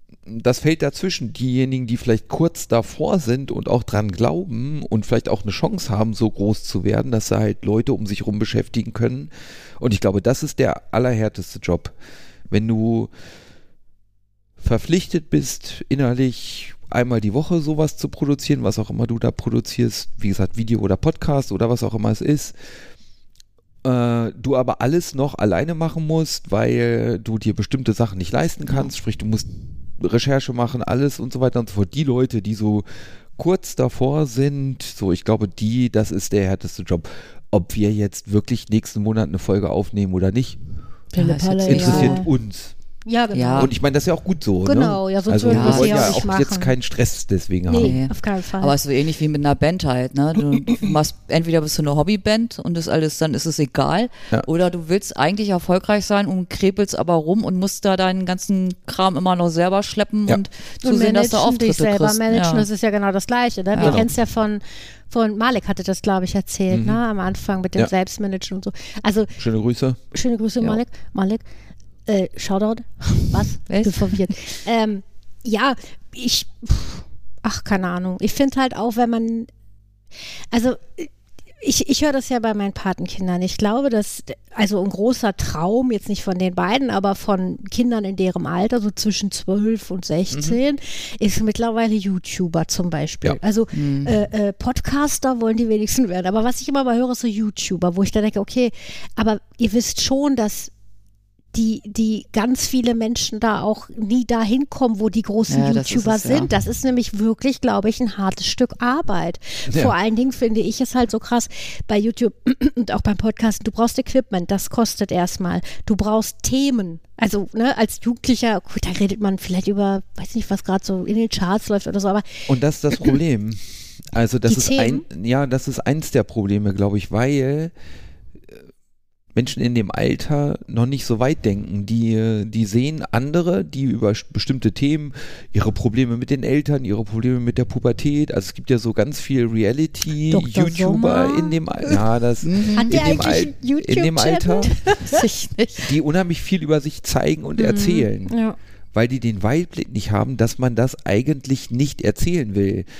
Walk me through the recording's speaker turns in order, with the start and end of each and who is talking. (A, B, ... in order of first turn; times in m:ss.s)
0:00.2-0:11.9 A
0:12.5-0:13.1 A
0:14.6-0:22.5 A
0:23.8-0:32.8 A
0:33.4-0:40.6 A
0:41.1-0:42.3 B
0:41.2-0:42.2 C
0:41.7-0:42.7 A
0:43.0-0:43.7 B
0:43.3-0:43.7 C
0:43.6-0:47.9 A
0:44.6-0:46.7 B
0:45.5-0:46.2 C
0:47.7-0:48.7 B
0:47.8-1:02.7 C
0:50.7-0:50.9 A
1:00.8-1:09.3 B
1:03.7-1:04.0 C
1:03.8-1:04.1 A
1:06.7-1:07.0 A
1:09.4-1:10.0 A
1:10.1-1:11.4 B
1:12.1-1:19.5 B
1:13.7-1:14.2 C
1:20.5-1:21.1 B
1:21.6-1:40.7 B
1:30.3-1:30.6 A
1:33.7-1:34.1 C
1:41.5-2:02.4 B
1:45.5-1:46.5 C
2:02.5-2:07.7 A
2:04.5-2:05.0 B
2:09.3-2:24.8 A
2:20.3-2:21.9 B
2:22.4-2:23.0 C
2:22.7-2:25.2 B
2:25.0-2:25.8 C
2:25.9-2:28.3 A
2:27.6-2:28.6 B
2:28.9-2:32.9 A